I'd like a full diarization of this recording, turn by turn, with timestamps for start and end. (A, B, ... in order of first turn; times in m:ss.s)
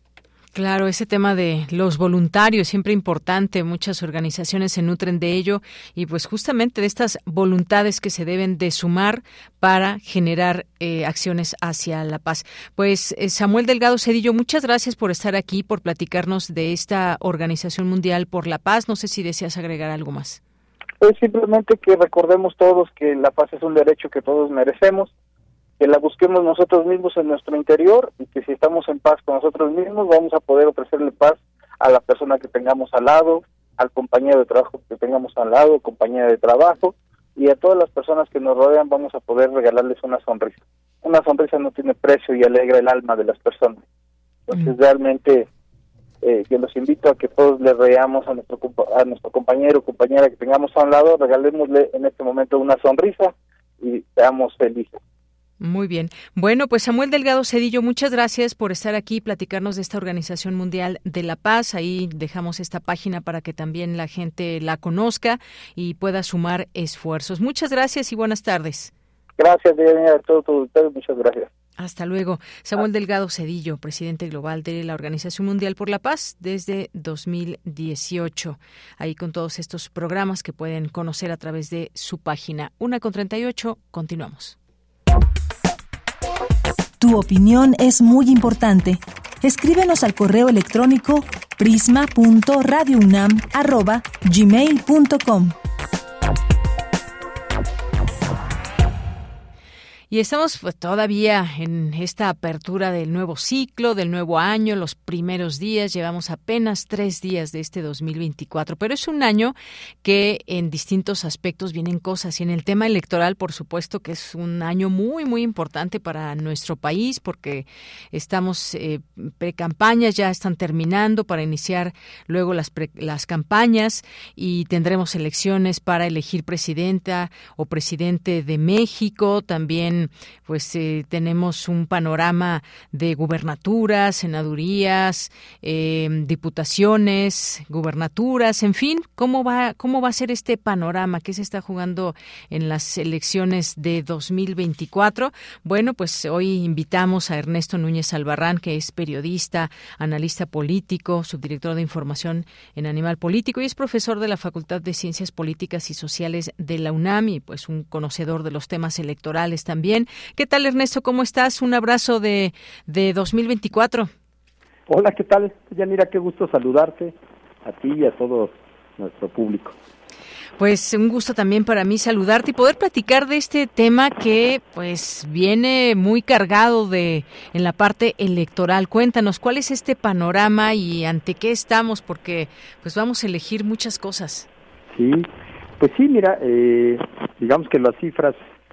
0:00.5-0:20.4 A
0:21.0-0:25.1 B
0:25.8-0:43.8 B
0:44.5-0:45.5 B
0:46.2-0:55.0 B
0:55.6-1:08.9 A
1:09.4-1:11.5 B
1:11.8-1:24.6 A
1:27.0-1:35.6 C
1:40.1-2:44.1 A
2:44.9-2:49.8 D
2:50.6-3:04.5 A
3:04.9-3:08.5 D